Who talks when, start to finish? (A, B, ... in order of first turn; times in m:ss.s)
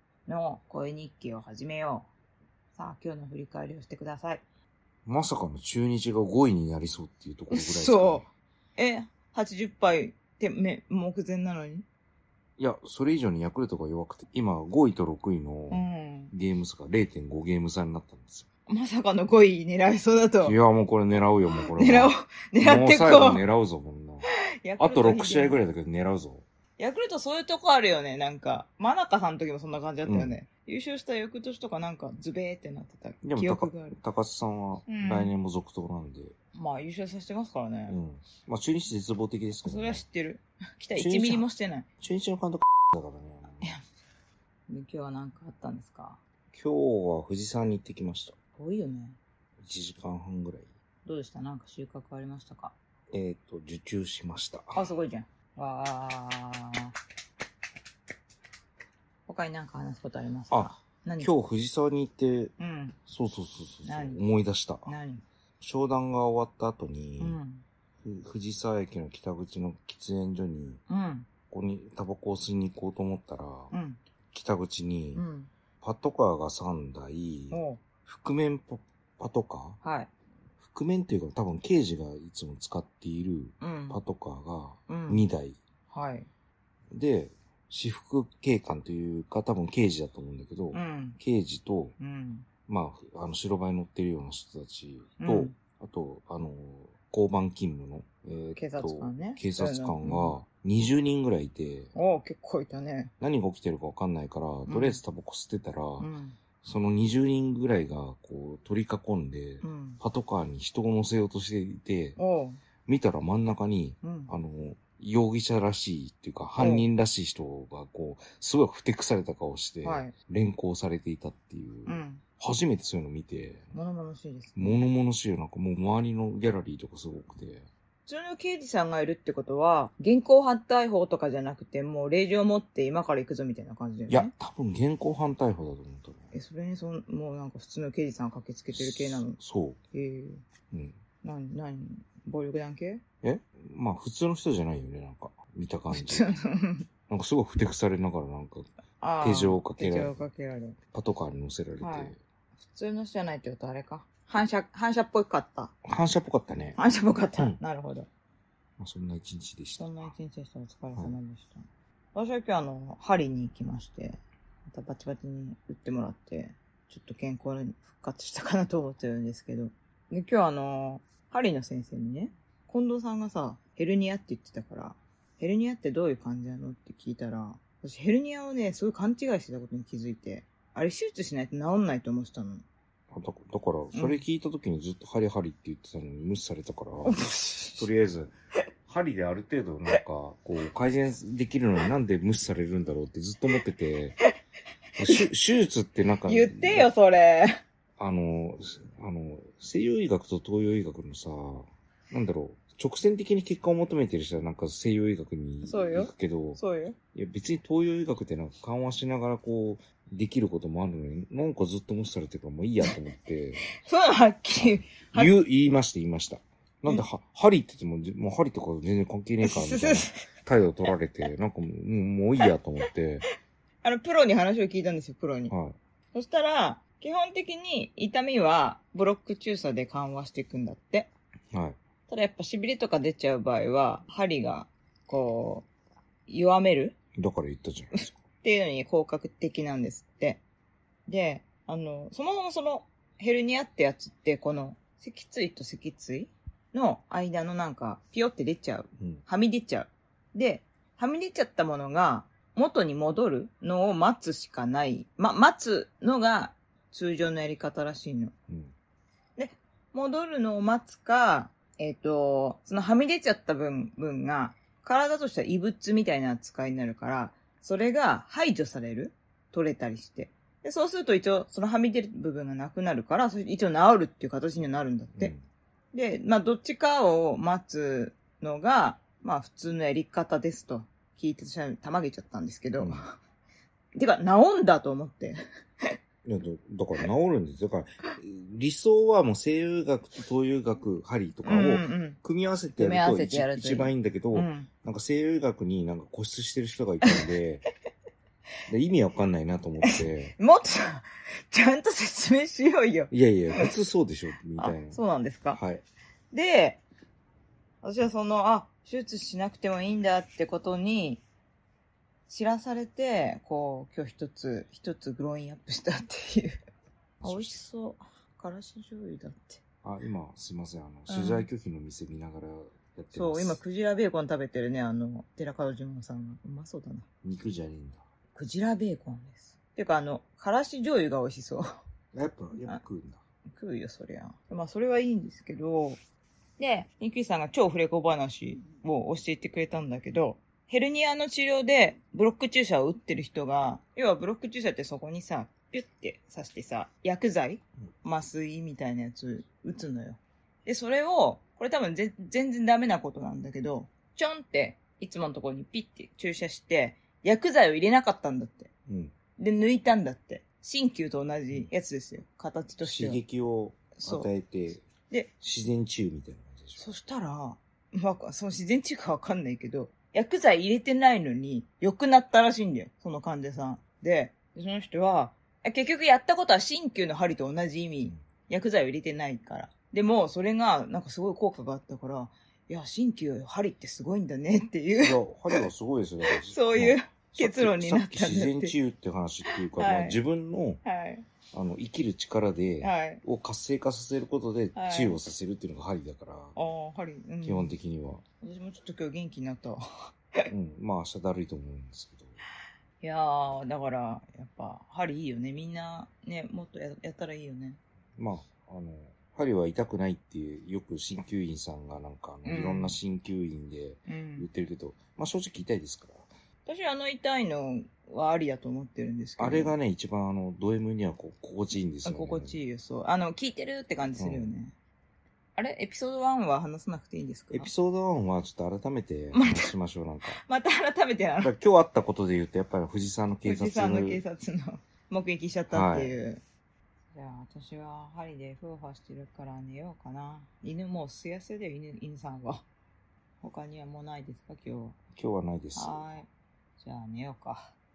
0:00.2-0:02.1 A
0:02.7-0:04.4 A
0:05.0-0:08.3 B
0:07.5-0:08.2 A
0:08.8-0:11.8 A
0:12.6-0:18.5 B
0:15.7-0:16.3 A
0:18.7-0:20.6 A
0:20.4-0:24.3 B
0:21.7-0:23.4 A
0:24.2-0:25.6 A
0:24.8-0:26.4 B
0:26.8-0:34.0 A
0:30.0-0:30.4 B
0:33.2-0:36.3 B
0:34.9-0:35.3 A
0:36.5-0:38.0 A
0:37.9-0:40.0 B
0:39.6-0:41.8 A
0:41.0-0:41.4 B
0:42.0-0:43.7 B
0:44.7-0:46.2 A
0:46.5-0:48.4 B
0:48.6-0:49.2 A
0:49.6-0:50.7 B
0:51.0-0:52.7 A
0:53.1-0:54.8 B
0:54.7-0:56.9 A
0:59.3-1:01.3 A
1:00.5-1:02.5 B
1:02.6-1:03.0 A
1:03.1-1:04.9 B
1:03.8-1:04.2 A
1:04.8-1:05.2 A
1:05.6-1:07.4 B
1:07.2-1:07.6 A
1:08.0-1:10.8 B
1:10.9-1:11.3 A
1:11.5-1:13.7 B
1:13.7-1:14.0 A
1:14.3-1:15.2 B
1:15.1-1:15.5 A
1:15.8-1:19.8 B
1:17.5-1:17.8 A
1:19.8-1:20.1 A
1:20.6-1:25.6 B
1:23.6-1:24.0 A
1:24.9-1:25.2 A
1:25.9-1:26.3 A
1:26.9-1:31.9 B
1:30.7-1:31.2 A
1:32.0-1:32.5 A
1:32.7-1:41.9 B
1:35.2-1:35.6 A
1:38.6-1:40.4 A
1:41.9-1:43.1 A
1:43.2-1:46.1 B
1:44.7-1:45.0 A
1:46.0-1:46.4 A
1:46.6-1:52.2 B
1:49.6-1:50.0 A
1:52.2-1:52.6 A
1:52.8-2:03.7 B
1:54.0-1:54.3 A
1:56.6-1:56.9 A
1:59.8-2:00.1 A
2:01.8-2:02.2 A
2:03.7-2:04.8 A
2:04.6-2:07.7 B
2:08.0-2:14.3 A
2:14.1-2:16.3 B
2:16.3-2:19.4 A
2:18.7-2:19.8 B
2:19.9-2:20.4 A
2:21.2-2:23.0 A
2:23.2-2:26.3 B
2:25.9-2:26.9 A
2:27.1-2:28.7 B
2:29.0-2:30.8 A
2:29.2-2:30.2 B
2:30.9-2:32.2 B
2:31.8-2:32.1 A
2:32.6-2:35.7 A
2:35.8-2:36.8 B
2:36.8-2:38.1 A
2:38.8-2:40.1 B
2:39.8-2:41.6 A
2:42.1-3:02.6 A
3:03.1-3:07.2 B
3:03.9-3:04.2 A
3:07.0-3:07.8 A
3:07.8-3:08.3 B
3:08.9-3:14.2 B
3:15.0-3:16.9 B
3:16.3-3:17.6 A
3:18.0-3:26.6 B
3:25.6-3:27.0 A
3:27.1-3:33.7 B
3:33.8-3:35.3 A
3:34.6-3:43.2 B
3:39.4-3:40.3 A
3:43.8-3:45.5 A
3:45.5-3:45.8 B
3:46.1-3:51.1 A
3:52.1-3:55.7 A
3:56.3-3:57.0 A
3:57.2-3:58.2 B
3:58.0-4:00.4 A
4:01.1-4:18.3 A
4:19.4-4:35.3 A
4:35.2-4:35.4 B
4:35.9-4:43.1 A
4:42.8-4:43.0 B
4:44.0-4:45.4 A
4:46.2-4:57.6 B
4:51.4-4:52.2 A
4:52.8-4:54.7 A
4:57.0-4:57.3 A
4:58.7-5:00.3 B
4:59.8-5:03.7 A
5:03.1-5:05.0 B
5:04.6-5:05.6 A
5:05.5-5:05.8 B
5:06.3-5:06.8 A
5:07.8-5:11.2 A
5:12.3-5:16.6 A
5:17.2-5:17.6 B
5:17.2-5:19.6 A
5:19.8-5:23.6 B
5:21.1-5:21.5 A
5:23.1-5:27.0 A
5:27.2-5:28.0 B
5:28.3-5:31.7 A
5:32.1-5:33.2 B
5:33.5-5:36.0 A
5:36.6-5:58.7 A
5:58.9-5:59.1 B
5:59.4-6:03.2 A
6:02.8-6:04.8 B
6:03.9-6:04.3 A
6:05.4-6:06.8 B
6:06.8-6:25.6 A
6:25.0-6:30.8 B
6:26.5-6:28.7 A
6:29.5-6:30.2 A
6:30.8-6:31.2 A
6:31.5-6:36.6 B
6:32.8-6:33.2 A
6:34.7-6:35.2 A
6:36.6-6:37.7 A
6:37.4-6:38.2 B
6:38.4-6:39.8 A
6:40.5-6:42.4 B
6:43.0-6:47.8 A
6:48.2-6:56.3 B
6:52.4-6:53.0 A
6:54.1-6:54.5 A
6:56.6-6:59.8 A
6:59.4-7:02.6 B
7:02.0-7:04.8 A
7:04.2-7:04.5 B
7:05.6-7:07.7 A
7:07.5-7:10.4 B
7:09.3-7:09.7 A
7:10.3-7:11.5 A
7:11.4-7:14.2 B
7:13.4-7:16.4 A
7:15.7-7:16.1 B
7:17.1-7:22.6 A
7:23.4-7:25.0 A
7:25.1-7:26.1 B
7:25.8-7:27.7 A